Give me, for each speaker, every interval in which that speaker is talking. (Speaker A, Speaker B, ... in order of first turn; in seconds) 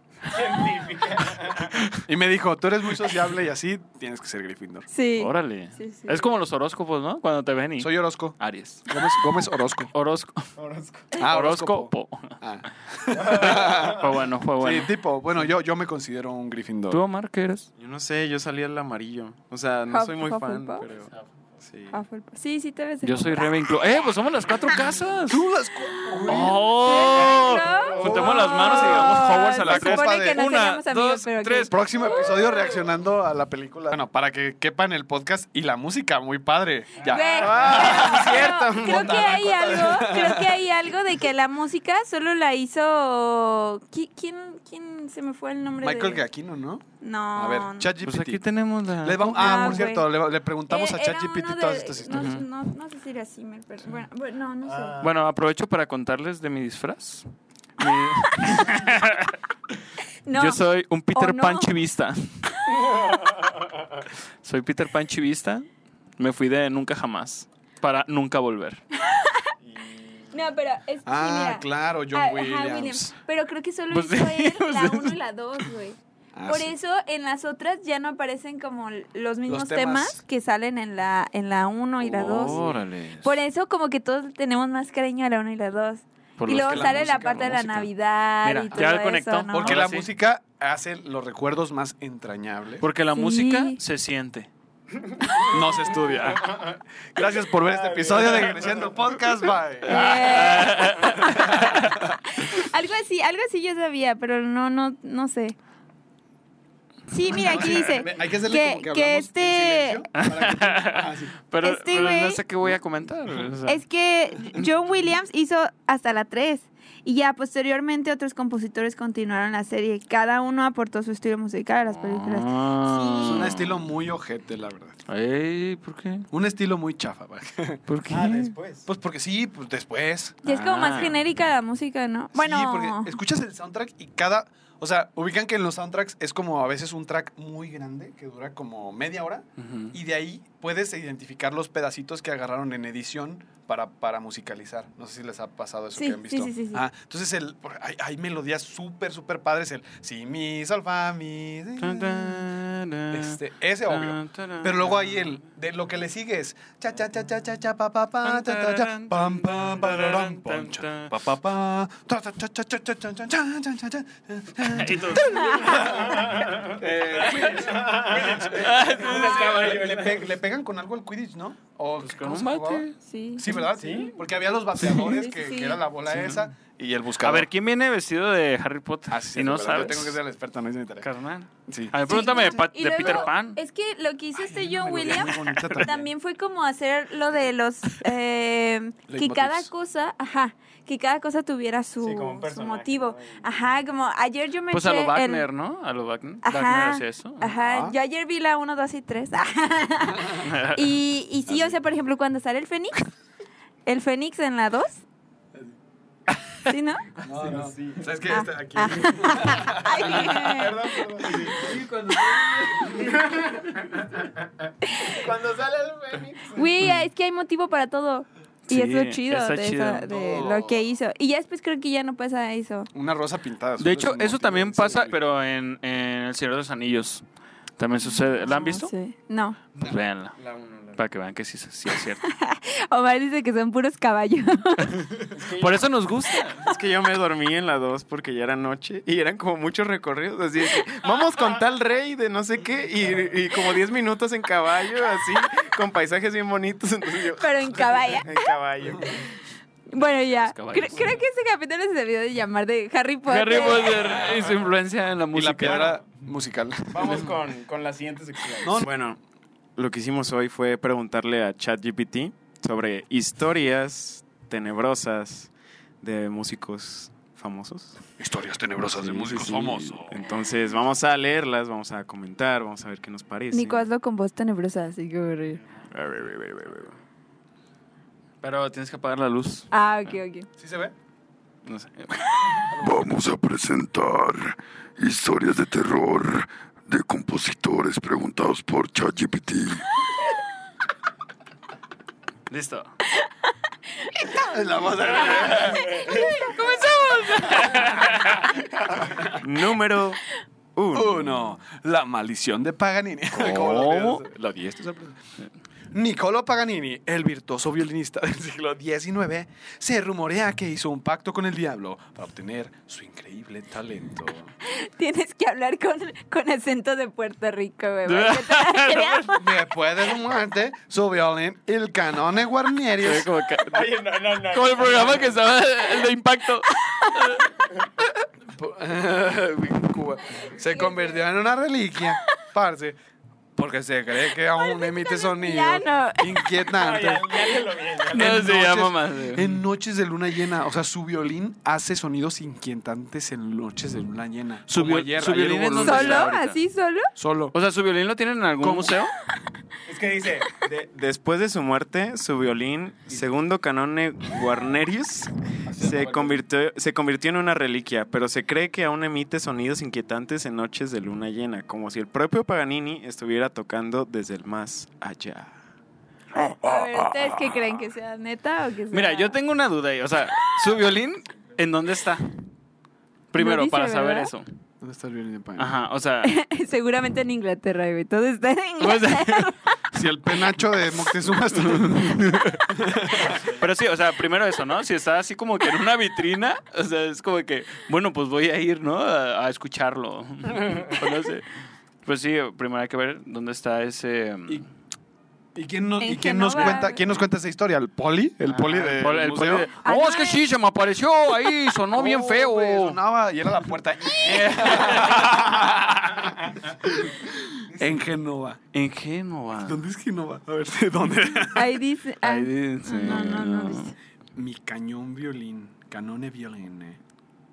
Speaker A: 0.3-1.7, 10.6-11.1, 13.3-13.9, 20.9-21.2, 54.6-55.1, 69.6-70.4, 97.6-98.9, 128.1-128.9, 166.7-170.3, 173.7-174.2, 192.0-193.5, 207.3-208.1, 210.1-213.8, 215.0-216.6, 229.8-231.0, 235.3-235.8, 256.9-258.8, 295.3-296.3, 323.7-325.4, 336.7-338.4, 349.9-350.9
Speaker B: 2.0-4.9, 7.8-9.9, 11.2-17.0, 25.3-30.5, 31.7-40.6, 45.8-48.4, 49.0-52.4, 71.0-73.1, 76.3-76.7, 79.5-80.2, 82.1-82.8, 86.6-87.2, 89.5-92.8, 95.4-100.7, 101.2-102.0, 107.3-111.3, 123.2-125.0, 126.3-127.8, 128.8-130.4, 132.3-152.4, 153.1-177.5, 179.1-181.1, 181.7-182.0, 183.0-183.3, 184.4-186.1, 189.1-189.7, 197.5-197.9, 201.5-201.7, 207.2-210.4, 220.1-220.8, 222.9-225.2, 248.8-249.2, 255.3-257.4, 258.6-258.9, 268.2-270.2, 280.6-280.9, 282.7-283.1, 294.2-297.0, 299.0-299.3, 300.9-305.2, 305.9-314.5, 319.3-323.3, 328.5-333.0, 333.6-337.5, 338.1-346.3, 347.2-347.5, 348.6-348.9, 355.6-356.4, 374.8-375.7, 379.9-383.4, 395.5-399.7, 401.9-408.6, 409.6-411.8, 413.0-413.4, 414.3-417.0
Speaker C: 4.9-6.3, 19.9-20.9, 21.9-23.7, 26.8-32.2, 37.0-46.2, 47.0-47.9, 49.2-50.1, 50.7-55.0, 60.2-61.7, 69.0-69.5, 70.3-82.6, 83.2-89.8, 93.1-93.8, 99.8-105.5, 107.1-110.0, 111.6-112.4, 113.7-123.6, 130.4-133.1, 145.9-146.8, 165.2-165.9, 173.0-174.1, 174.9-175.8, 182.1-195.4, 196.4-203.0, 203.8-205.0, 206.7-207.0, 208.3-211.0, 214.8-215.3, 216.5-222.9, 228.0-229.6, 232.3-235.1, 247.4-248.3, 249.9-254.1, 273.5-275.6, 279.7-280.5, 294.1-294.5, 295.4-296.8, 314.6-319.4, 330.4-331.2, 334.5-336.5, 345.8-347.1, 366.3-369.3, 373.4-374.3, 376.2-379.7, 396.0-397.0, 399.8-400.4, 411.5-413.9
Speaker D: 5.2-8.9, 9.9-10.5, 11.2-12.4, 13.3-14.9, 16.9-17.7, 23.0-25.4, 26.2-31.7, 48.0-49.9, 52.1-52.4, 55.0-59.3, 60.3-62.5, 64.4-65.7, 66.2-68.8, 73.9-75.7, 82.1-83.4, 86.4-87.9, 88.4-90.1, 92.8-94.5, 99.8-101.9, 110.2-113.8, 121.9-123.8, 125.1-126.3, 127.9-128.5, 130.4-131.2, 139.6-139.9, 151.8-155.3, 158.2-161.1, 164.6-166.0, 168.6-169.5, 172.0-172.9, 174.8-175.1, 176.1-176.4, 177.2-180.2, 181.0-183.6, 194.7-197.5, 200.4-200.9, 218.7-220.1, 223.8-227.2, 227.8-228.9, 229.8-230.3, 230.9-232.3, 235.6-236.6, 250.4-251.2, 253.2-256.0, 278.4-279.7, 281.6-282.7, 292.5-292.9, 297.2-298.1, 303.3-304.2, 318.1-319.4, 323.0-327.4, 338.1-339.6, 344.7-346.6, 347.5-349.1, 368.9-372.4, 373.3-374.5, 375.6-376.3, 378.8-379.6, 381.5-382.6, 383.4-391.5, 392.0-394.6, 396.5-396.8, 398.4-403.0, 404.6-405.2, 408.7-409.8, 412.2-413.9
Speaker E: 17.8-21.1, 21.6-22.0, 37.3-39.5, 236.6-249.2, 258.7-259.2, 259.8-268.0, 268.9-273.9, 275.9-276.9, 299.3-300.2, 300.7-301.5, 350.9-365.6
Speaker F: 282.8-290.0